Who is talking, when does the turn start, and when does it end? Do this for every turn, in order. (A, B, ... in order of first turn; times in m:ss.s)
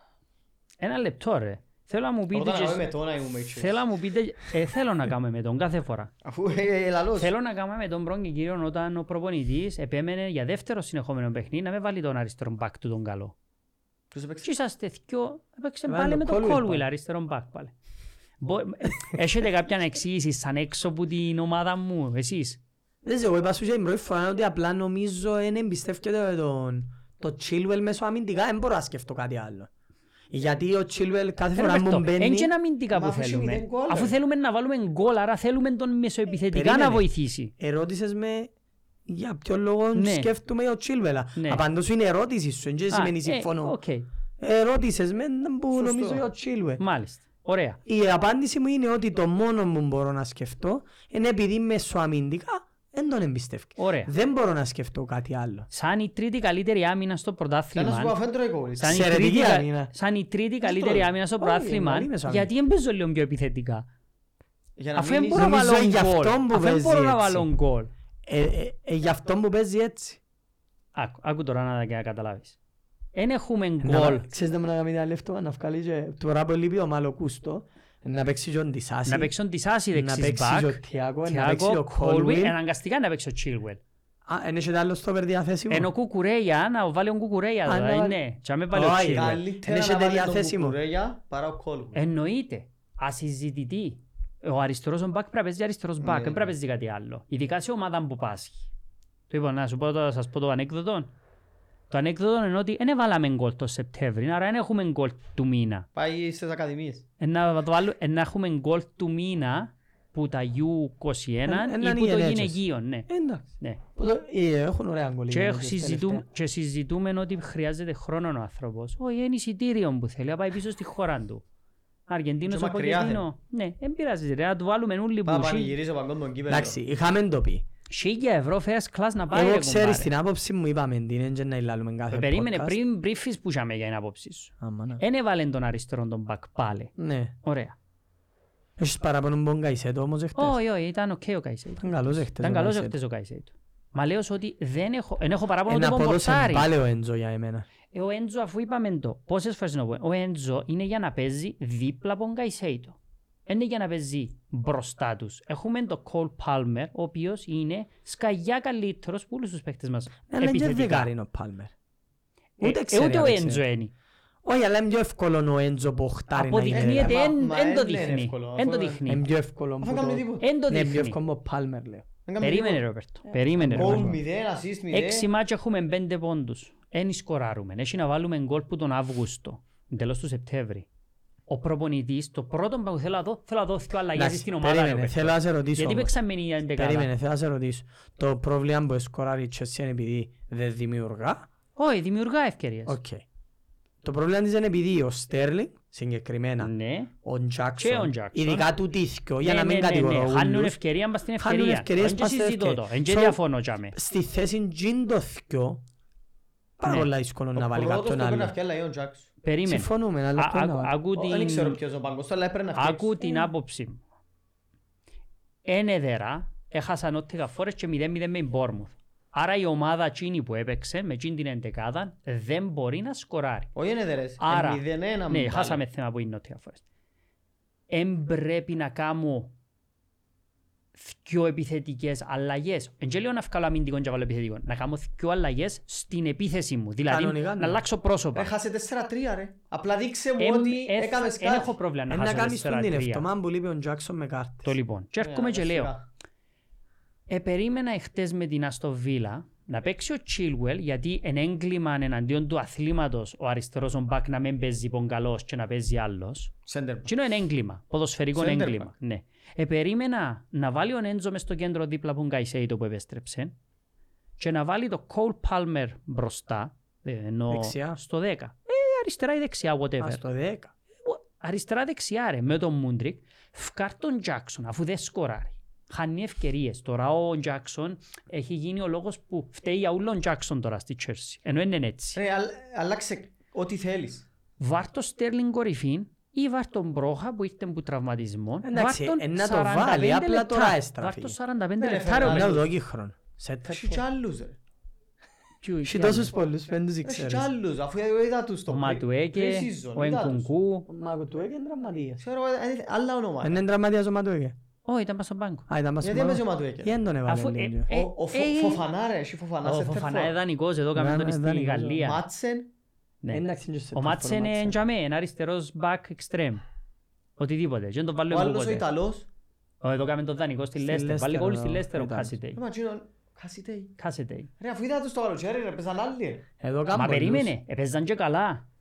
0:00.8-0:02.9 A
0:02.3-0:03.8 B
0:03.5-0:06.1 A
0:06.2-0:07.3 B
0:07.2-0:13.3 A
0:14.1-0:14.5 B
0:14.4-0:17.7 A
0:15.9-0:16.8 C
0:18.4-0:22.6 A
0:23.0-0:29.7 C
0:30.3-0:32.5 C
0:31.5-0:37.5 A
0:32.9-0:34.1 B
0:36.5-0:38.5 C
0:39.1-0:43.8 C
0:39.9-0:40.3 A
0:41.4-0:41.6 A
0:42.9-0:44.1 A
0:44.4-0:46.8 C
0:45.7-0:46.2 B
0:46.8-0:47.8 A
0:47.8-0:55.7 C
0:53.8-0:54.1 A
0:55.7-0:58.2 A
0:57.7-0:59.1 B
0:58.8-1:03.9 A
0:58.8-0:59.9 C
1:00.7-1:01.0 B
1:01.4-1:02.5 C
1:04.8-1:05.5 B
1:04.9-1:07.9 A
1:05.3-1:07.5 C
1:08.2-1:10.2 C
1:10.9-1:12.6 A
1:13.1-1:14.2 A
1:13.8-1:19.3 C
1:19.0-1:23.8 A
1:19.9-1:22.6 C
1:24.2-1:25.9 C
1:25.7-1:29.4 A
1:27.6-1:28.2 C
1:28.7-1:30.8 C
1:29.1-1:32.0 B
1:31.9-1:38.7 A
1:36.0-1:36.5 B
1:39.3-1:41.1 A
1:41.9-1:45.9 A
1:46.0-1:47.0 B
1:47.2-1:53.1 A
1:51.5-1:56.2 C
1:55.3-2:01.4 A
2:02.1-2:05.7 A
2:02.5-2:03.2 B
2:05.2-2:06.8 B
2:06.5-2:07.6 C
2:07.9-2:10.1 A
2:09.3-2:12.8 C
2:12.1-2:16.9 A
2:14.6-2:15.0 C
2:17.0-2:17.3 C
2:17.4-2:17.8 A
2:18.8-2:20.6 C
2:20.4-2:26.7 A
2:21.8-2:22.9 C
2:25.7-2:27.6 C
2:27.9-2:41.1 A
2:40.3-2:41.7 C
2:42.6-2:43.6 C
2:42.6-2:43.9 A
2:44.4-2:47.2 C
2:46.3-2:49.2 A
2:46.7-2:49.0 B
2:49.0-2:52.0 C
2:49.8-2:50.5 B
2:50.4-2:51.2 A
2:52.3-2:52.8 B
2:52.4-2:54.2 A
2:53.2-2:54.2 C
2:53.7-2:55.3 B
2:54.9-3:00.9 A
3:01.5-3:07.1 A
3:04.1-3:06.1 C
3:06.7-3:11.5 C
3:11.8-3:13.0 A
3:12.9-3:13.2 C
3:14.0-3:16.7 C
3:16.6-3:17.1 A
3:17.2-3:20.8 C
3:17.8-3:18.7 A
3:19.4-3:24.0 A
3:21.4-3:23.4 C
3:23.9-3:25.8 C
3:26.8-3:28.5 C
3:26.8-3:27.1 A
3:27.5-3:29.3 B
3:29.4-3:31.8 A
3:29.7-3:30.9 C
3:31.1-3:33.3 B
3:32.8-3:34.0 A
3:35.6-3:43.7 A
3:43.7-3:45.8 B
3:44.4-3:46.8 A
3:47.9-3:49.5 A
3:51.0-3:58.5 A
3:57.1-3:57.8 C
3:58.3-4:01.7 B
4:00.4-4:03.2 A
4:02.1-4:04.8 C
4:04.6-4:05.9 A
4:05.2-4:06.1 B
4:07.3-4:16.5 A
4:16.6-4:17.2 B
4:17.0-4:23.5 A
4:18.3-4:18.9 B
4:24.4-4:30.2 A
4:27.5-4:28.0 C
4:30.0-4:30.7 C
4:31.0-4:42.2 A
4:42.2-4:44.2 B
4:44.6-4:52.5 A
4:48.6-4:51.4 C
4:51.8-4:52.7 B
4:52.2-4:54.0 C
4:53.6-4:54.6 B
4:55.6-4:56.3 A
4:55.8-4:57.5 C
4:57.0-5:00.5 B
4:58.7-5:00.9 A
5:00.9-5:02.2 C
5:02.2-5:03.6 B
5:03.4-5:04.5 C
5:04.8-5:05.7 A
5:05.7-5:07.9 C
5:06.0-5:07.0 B
5:07.3-5:08.8 A
5:07.9-5:10.3 B
5:09.6-5:12.2 A
5:10.9-5:12.0 C
5:12.0-5:12.7 B
5:13.3-5:14.8 C
5:13.9-5:16.6 A
5:17.4-5:18.8 A
5:18.3-5:19.3 B
5:19.8-5:22.6 A
5:20.8-5:22.4 C
5:22.6-5:24.0 B
5:24.0-5:24.5 A
5:24.6-5:26.4 B
5:26.6-5:27.5 C
5:26.9-5:28.6 A